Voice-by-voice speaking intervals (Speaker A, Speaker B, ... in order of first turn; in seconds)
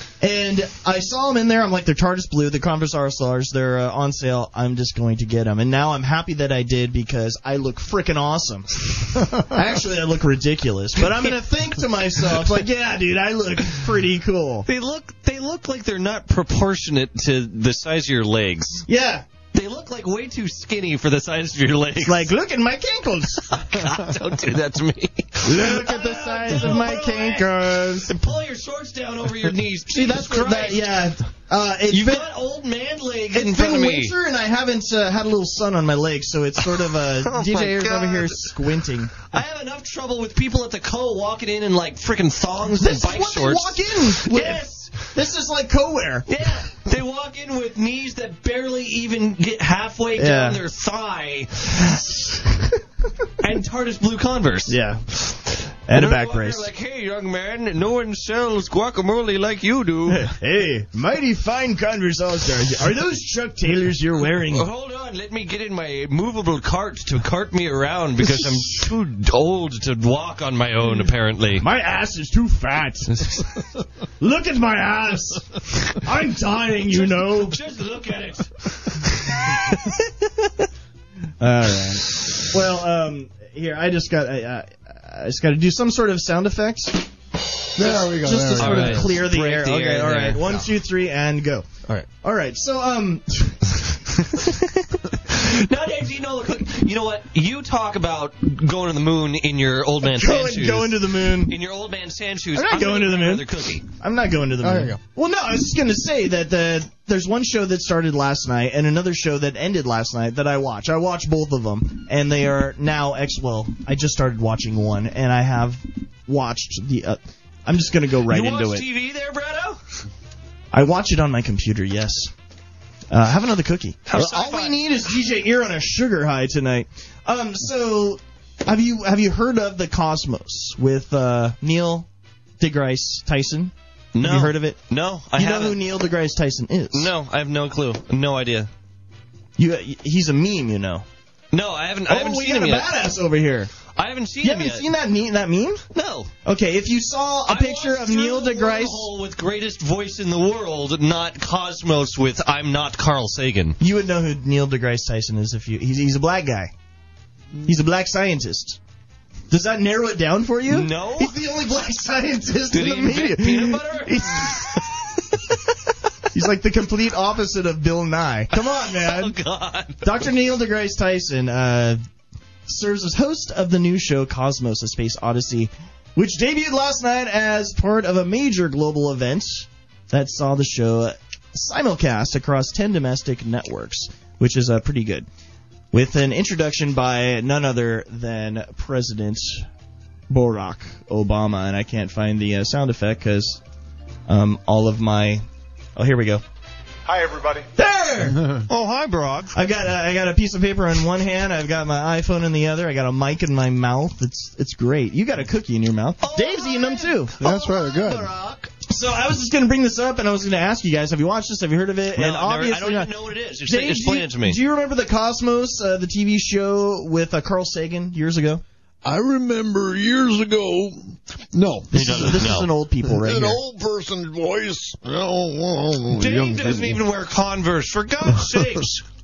Speaker A: 0.2-14.7, 18.9-19.2, 22.0-23.5, 25.4-28.1, 29.9-32.3, 33.3-39.2, 42.8-46.3, 50.1-50.6, 51.9-52.7, 54.7-55.0, 55.9-56.7, 60.1-64.7, 71.6-73.5, 74.2-77.6, 81.4-87.0, 87.8-91.7, 92.2-93.8, 100.0-101.5, 102.5-118.8, 120.7-122.3, 123.1-132.1, 132.6-134.8, 135.3-137.1, 139.6-141.0, 142.1-143.7, 144.4-145.8, 146.4-149.1, 153.8-156.7, 157.6-158.8, 159.5-164.8, 166.3-169.3, 170.0-172.0, 172.7-185.3, 185.9-189.7, 190.3-193.6, 194.3-195.4, 195.9-196.4, 197.8-198.4, 199.5-218.6, 221.9-223.6
Speaker B: 14.7-18.9, 19.5-22.3, 23.5-31.0, 31.9-34.1, 36.9-38.5, 39.3-45.0, 46.3-52.1, 53.4-60.3, 64.5-71.7, 76.9-79.9, 88.5-90.6, 95.3-103.8, 118.3-119.8, 124.1-124.8, 134.1-135.8, 136.9-138.7, 141.5-142.9, 143.9-144.8, 145.9-146.3, 147.5-153.8, 160.7-161.3, 162.7-164.9, 168.6-170.1, 198.7-199.5, 206.2-207.4, 212.1-214.6, 221.9-222.7, 226.1-229.0
Speaker C: 87.8-89.1, 104.6-105.0, 197.1-197.5, 198.3-198.7, 207.4-208.3, 219.0-222.5, 223.0-227.0